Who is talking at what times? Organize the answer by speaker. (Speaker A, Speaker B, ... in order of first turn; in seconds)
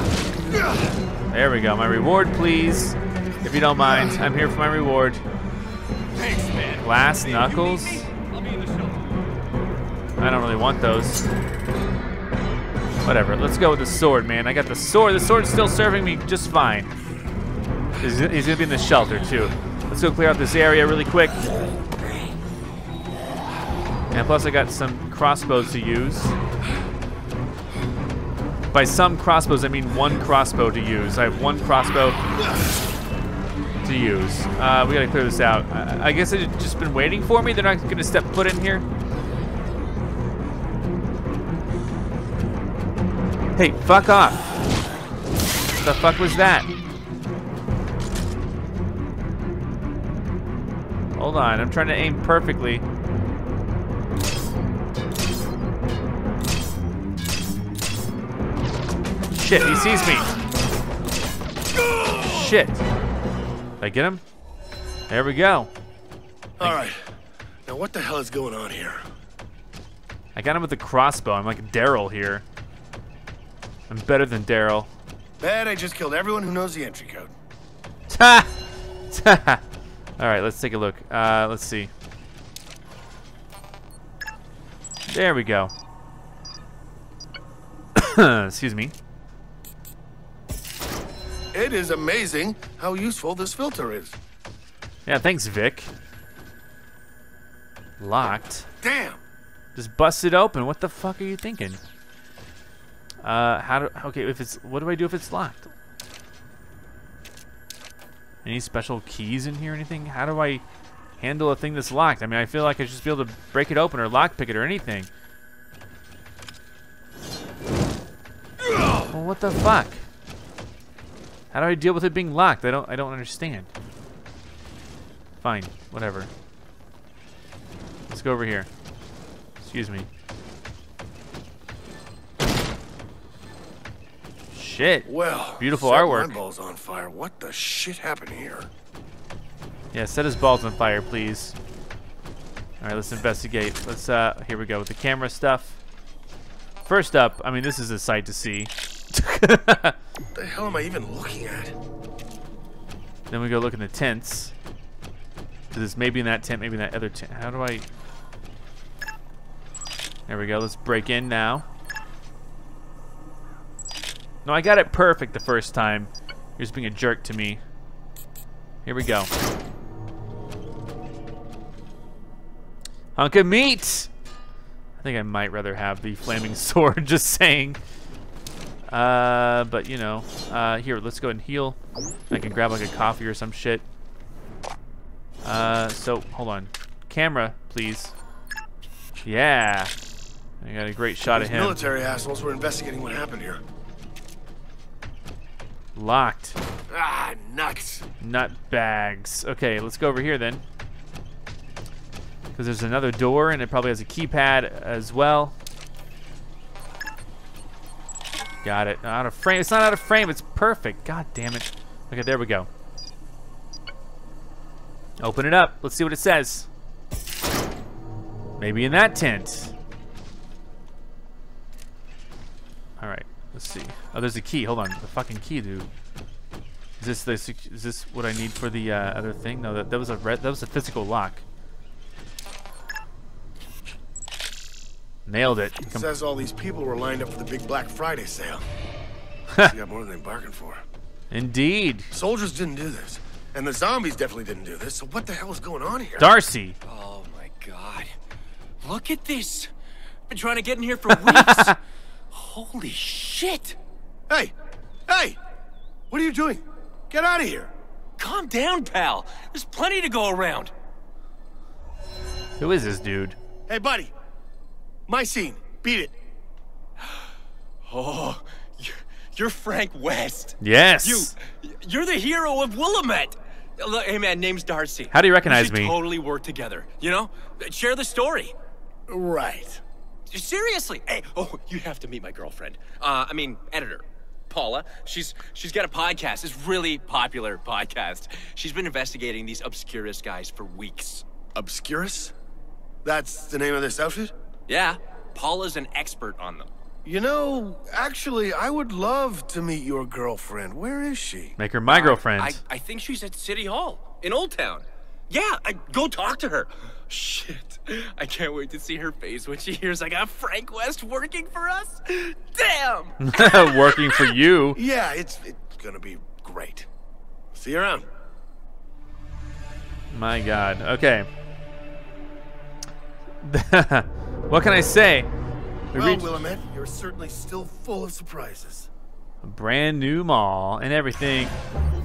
Speaker A: 1.3-5.2, 6.8-8.1, 10.2-11.3, 13.0-16.9, 18.0-21.4, 24.1-26.4, 28.7-32.2, 33.8-38.9, 43.6-44.4, 45.8-46.7, 51.2-52.8, 59.3-60.3, 62.2-62.8, 63.8-64.2, 65.1-65.7, 70.3-72.5, 73.9-74.9, 78.1-78.5, 79.1-79.6, 80.2-81.9, 85.1-85.7, 88.0-88.9, 95.1-95.9, 98.0-98.7, 99.8-101.8, 103.2-105.7, 108.4-110.6, 111.2-115.1, 119.1-120.0, 121.5-123.7, 125.4-126.3, 128.1-128.7, 129.6-130.1, 134.5-136.4, 139.9-141.6, 142.8-145.8, 146.8-150.0, 153.3-154.5, 155.7-157.9, 160.3-161.7, 164.4-167.6, 168.9-169.3, 173.2-174.1, 175.0-177.8, 178.9-181.8, 182.3-183.8, 185.4-188.1, 189.2-189.9, 190.6-191.8, 196.0-196.6, 198.2-200.6, 202.6-205.6, 208.6-212.7, 215.2-216.7, 218.6-219.7, 223.0-225.9, 227.0-231.4, 235.3-236.1, 241.3-242.1, 246.2-246.8, 251.3-251.7, 262.6-263.4, 270.6-271.3, 275.1-276.0, 301.6-302.6, 313.2-314.8, 320.1-321.3, 323.4-325.3, 325.9-326.3, 329.4-331.6
Speaker B: 6.2-9.0
Speaker C: 62.0-62.3, 66.6-67.0, 67.7-69.1, 75.4-77.3, 91.5-94.2, 98.8-99.2, 135.1-138.7, 150.3-151.8, 191.3-193.6, 196.9-198.1, 235.8-238.7, 239.7-240.8, 242.1-246.3, 254.3-254.5, 255.1-255.4, 256.1-257.7, 263.7-264.1, 265.1-266.1, 279.1-279.8, 291.6-292.3, 293.0-294.3, 297.1-301.6, 314.8-316.9, 317.5-318.1, 325.9-328.9
Speaker D: 246.8-248.1, 248.8-249.7, 250.3-251.8, 252.3-253.8, 258.2-260.7, 267.9-278.5, 280.3-291.2, 294.7-296.7, 301.9-314.0